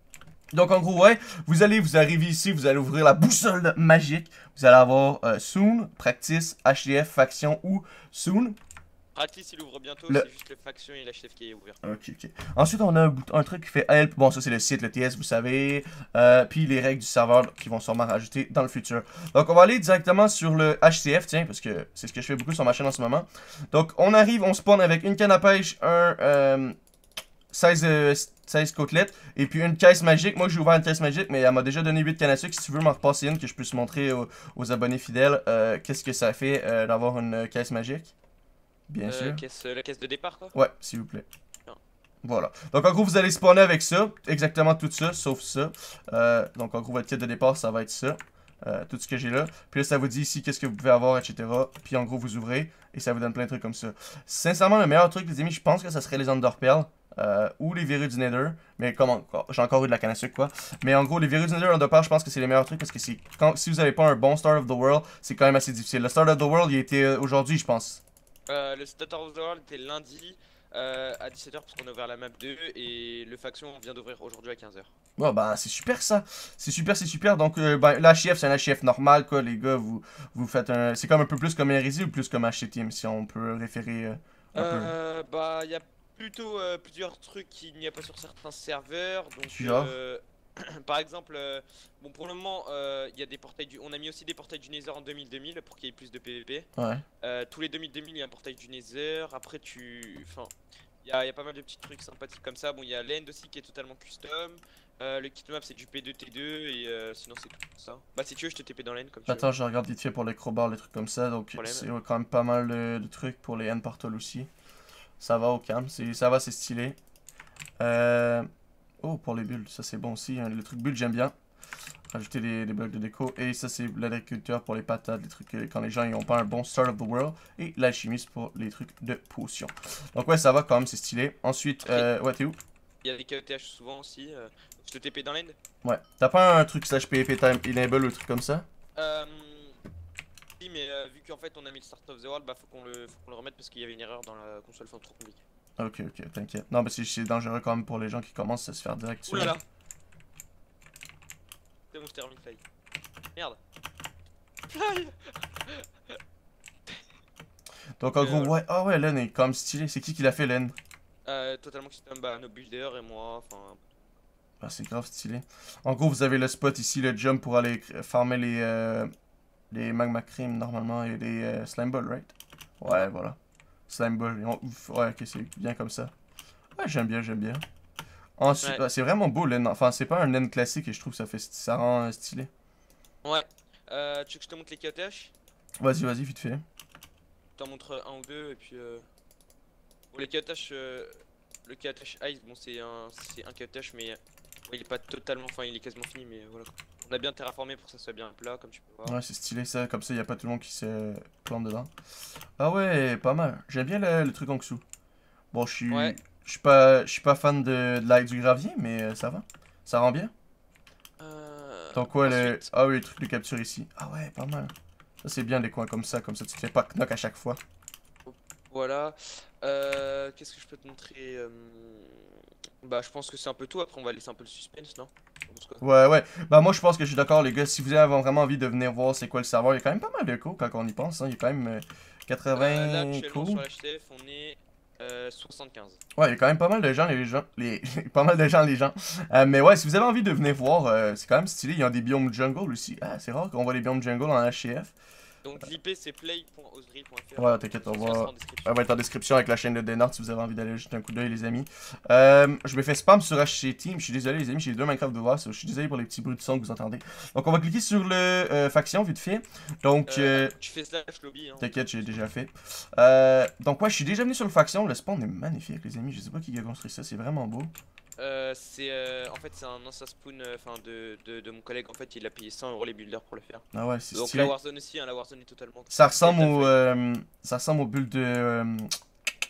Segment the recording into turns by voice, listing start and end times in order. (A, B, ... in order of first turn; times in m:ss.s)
0:00.5-0:08.6 A
0:09.1-0:11.8 B
0:11.8-0:26.8 A
0:27.5-0:38.1 A
0:38.9-0:39.4 A
0:39.0-0:40.5 B
0:40.5-0:41.2 A
0:42.2-1:08.0 A
1:08.5-1:14.9 B
1:15.2-1:24.9 A
1:24.5-1:36.7 B
1:29.5-1:30.0 A
1:36.8-1:37.0 A
1:37.2-1:49.5 B
1:49.3-1:54.5 A
1:51.6-1:51.9 B
1:55.2-1:57.0 A
1:57.8-1:58.5 A
1:59.0-2:01.3 A
2:02.1-2:12.6 A
2:13.0-2:15.6 B
2:15.8-2:18.6 A
2:19.0-2:19.8 B
2:20.6-2:25.4 B
2:25.8-2:29.6 A
2:29.3-2:29.6 B
2:31.9-2:32.6 B
2:34.7-2:36.1 B
2:38.0-2:40.8 A
2:38.1-2:38.6 B
2:41.2-2:43.8 B
2:44.6-2:49.1 A
2:49.7-2:56.1 A
2:56.8-2:57.6 A
2:58.4-3:02.5 A
3:03.2-3:05.3 B
3:05.8-3:06.6 A
3:07.6-3:09.0 B
3:10.1-3:19.2 B
3:19.0-3:21.9 A
3:22.6-3:24.8 A
3:25.5-3:30.3 A
3:25.9-3:26.2 B
3:31.2-3:32.7 B
3:31.9-3:37.6 A
3:38.2-3:45.8 B
3:45.8-3:53.6 A
3:52.5-3:56.0 B
3:56.2-4:04.9 A
4:05.4-4:08.8 B
4:07.4-4:20.5 A
4:20.1-4:22.1 B
4:21.6-4:27.7 A
4:28.2-4:36.8 B
4:33.7-4:34.5 A
4:35.9-4:38.9 A